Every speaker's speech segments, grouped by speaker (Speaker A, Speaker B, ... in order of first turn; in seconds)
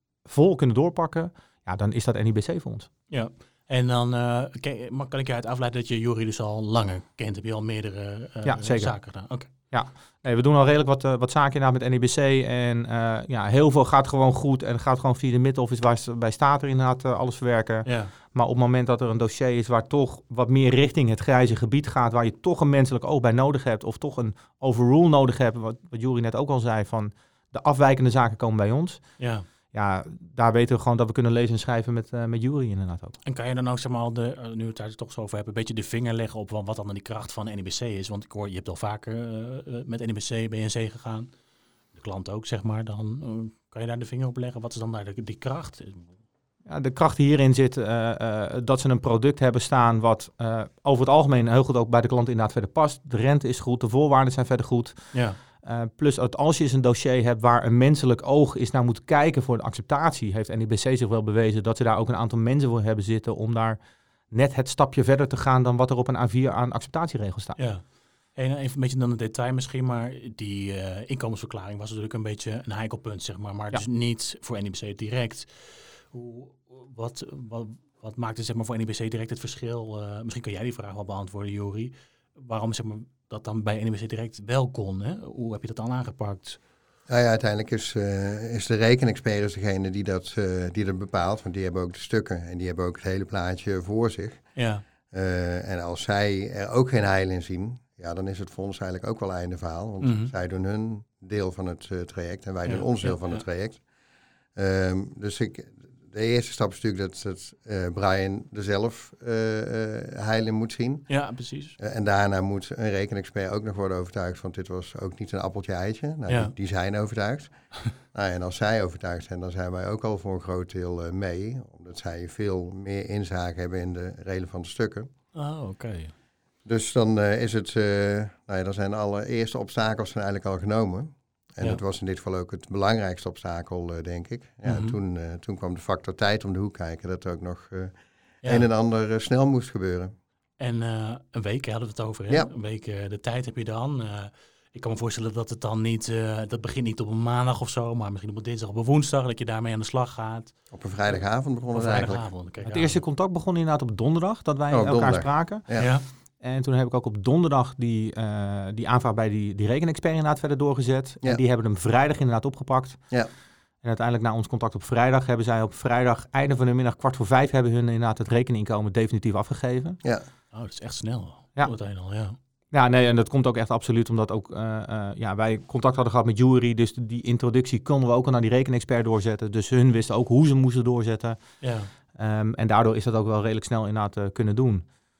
Speaker A: 0.2-2.9, 8.4-29.2, 29.7-33.2, 46.7-63.8, 64.3-67.6, 152.6-155.9, 156.4-163.1, 163.8-170.0, 172.7-181.6, 182.1-184.9
Speaker B: 3.1-9.5, 17.9-18.1, 29.2-29.5, 33.2-41.3, 41.9-46.2, 55.1-55.4, 67.6-86.6, 94.5-94.8, 100.0-100.3, 102.7-103.4, 111.1-111.8, 116.3-116.5, 125.3-126.1, 134.7-135.0, 140.6-150.6, 151.1-153.0, 155.8-156.1, 170.5-172.4, 181.6-181.9
Speaker C: 87.1-94.6, 95.1-103.8, 104.5-111.2, 111.8-125.1, 126.7-140.1, 150.7-152.3, 154.7-155.9